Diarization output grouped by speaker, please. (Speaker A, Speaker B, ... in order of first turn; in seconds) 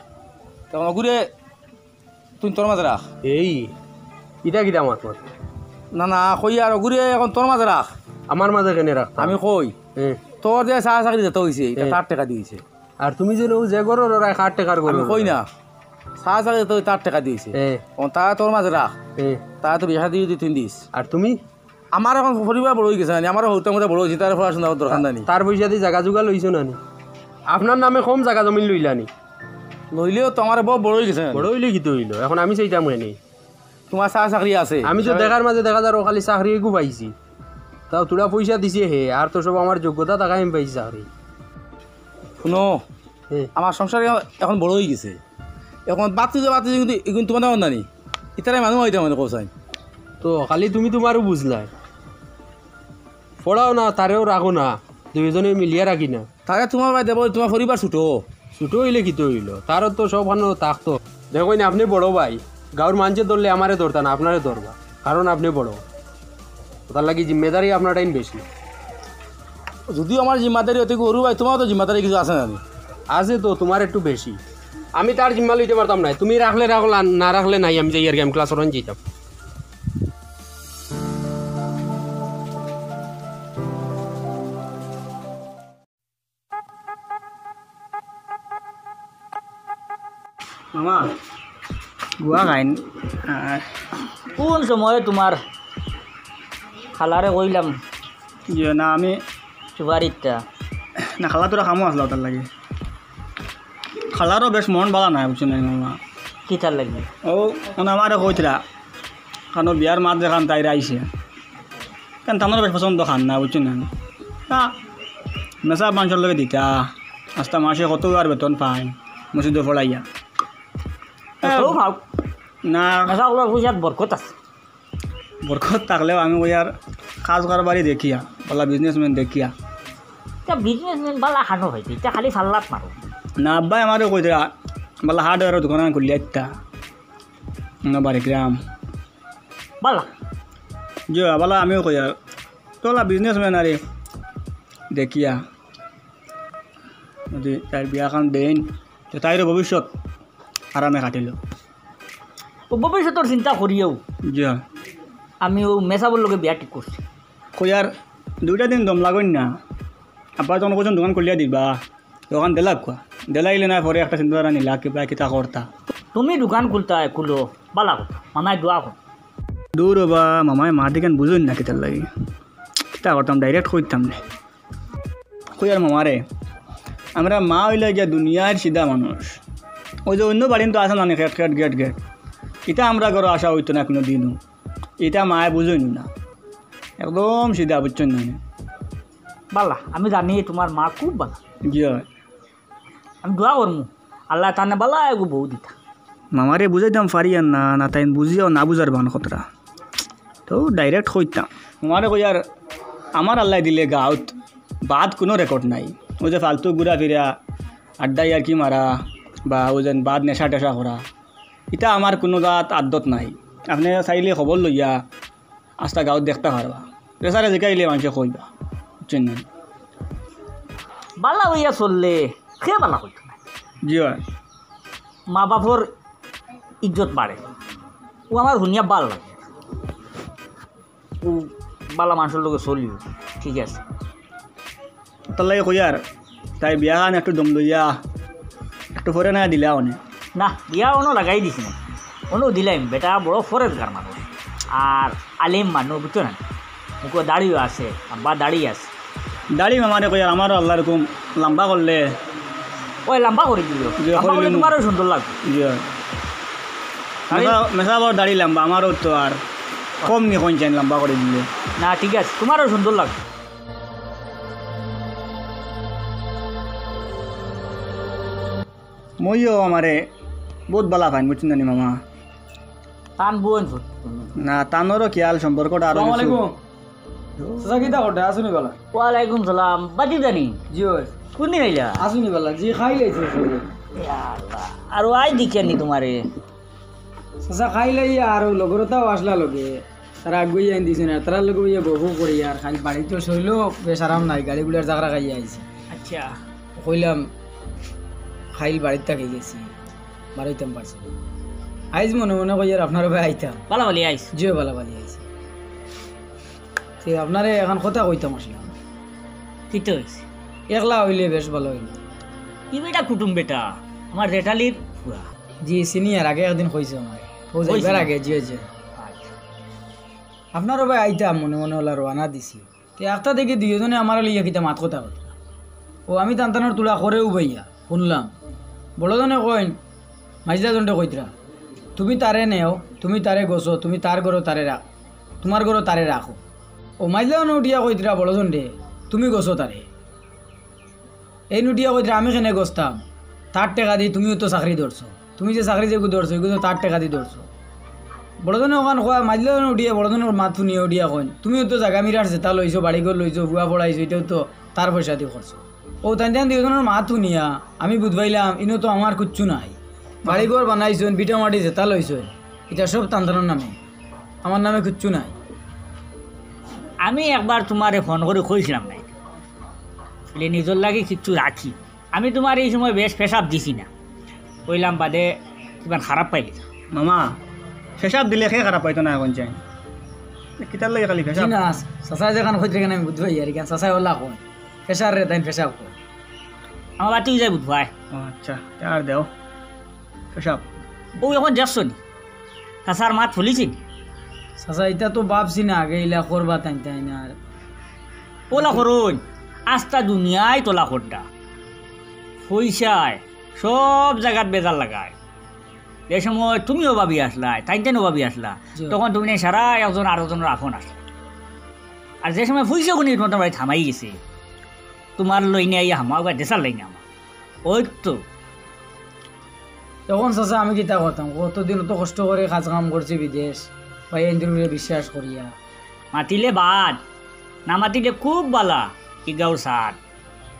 Speaker A: 0.7-1.2, 2.4-3.0, 5.9-7.9, 9.2-9.7, 10.3-12.6, 14.9-15.4, 16.2-18.9, 19.5-20.8, 21.9-25.3, 29.9-31.5, 33.9-35.2, 42.4-42.8, 43.6-45.2, 45.9-47.9, 48.4-49.5, 56.5-58.2, 69.9-72.6
Speaker B: 3.2-3.7, 4.4-5.2, 8.3-9.4, 9.9-10.3, 13.0-15.4, 17.5-17.8, 19.2-19.5, 20.9-21.4, 24.9-26.8, 27.5-29.1, 31.3-33.1, 34.8-37.1, 37.9-41.1, 50.2-51.7, 53.4-56.3, 58.6-65.8, 66.9-68.4, 73.1-74.4, 75.0-79.0
Speaker C: 90.7-91.1, 92.2-93.7, 98.5-99.2, 101.0-102.5, 104.1-106.0, 107.3-108.6, 109.5-111.1, 112.3-113.9, 114.5-114.8, 115.6-120.0, 121.4-121.8, 122.6-123.1, 125.4-129.5, 133.4-134.5, 135.0-136.5, 137.8-138.6, 141.1-142.2, 142.8-143.8, 144.9-145.4, 147.3-149.9, 150.7-151.4, 154.3-154.6, 157.6-159.6, 160.4-165.7, 169.8-172.1, 172.9-174.2, 175.6-176.2, 177.2-179.4, 180.1-182.0, 182.7-184.4, 185.0-186.1, 187.0-188.4, 191.7-192.1, 196.3-199.4, 200.5-202.4, 203.2-204.3, 204.9-207.4, 208.0-211.1, 211.7-215.0, 215.8-218.5, 219.0-219.4, 223.8-224.2, 235.3-236.0, 236.6-238.0, 238.9-240.0, 249.5-252.2, 254.0-254.7, 255.4-255.8, 257.3-259.4, 260.0-261.5, 269.2-270.1, 270.7-272.0, 274.4-276.4, 376.9-377.4, 378.0-379.6, 380.6-381.6, 388.1-389.3, 390.3-390.7
Speaker D: 94.3-95.4, 96.9-97.8, 99.8-100.4, 106.5-107.1, 121.4-122.0, 123.1-124.3, 130.4-133.0, 139.8-140.1, 152.7-154.0, 155.4-157.0, 166.1-168.9, 189.5-191.4, 193.2-195.7, 221.2-223.4, 225.3-225.9, 226.8-227.4, 228.3-229.4, 231.2-233.8, 240.3-241.8, 242.3-244.2, 244.7-246.4, 247.0-248.9, 253.1-255.3, 257.3-257.6, 261.8-263.2, 273.2-274.3, 278.9-280.6, 281.4-282.1, 284.0-286.2, 295.9-296.4, 303.7-304.3, 309.7-310.2, 312.7-315.3, 317.6-318.1, 318.9-319.3, 367.0-369.1, 370.3-373.9, 374.7-376.6, 387.0-387.9, 391.2-392.0, 392.9-393.8, 398.5-401.3, 402.4-405.1, 406.1-411.0, 412.2-414.2, 415.2-417.0, 417.6-418.2, 426.1-427.0, 427.7-430.0
Speaker E: 275.9-276.6, 277.6-278.8, 280.7-281.1, 282.0-283.6, 287.4-295.6, 296.8-297.3, 298.6-299.7, 300.4-301.1, 301.9-303.6, 304.4-305.2, 307.0-308.7, 310.7-312.0, 315.6-318.6, 320.5-325.3, 326.1-328.3, 329.0-329.8, 330.4-331.3, 331.9-334.8, 335.4-336.4, 337.0-339.9, 341.5-347.4, 348.4-363.8, 364.4-365.4, 381.4-386.0, 394.6-397.4, 420.1-425.5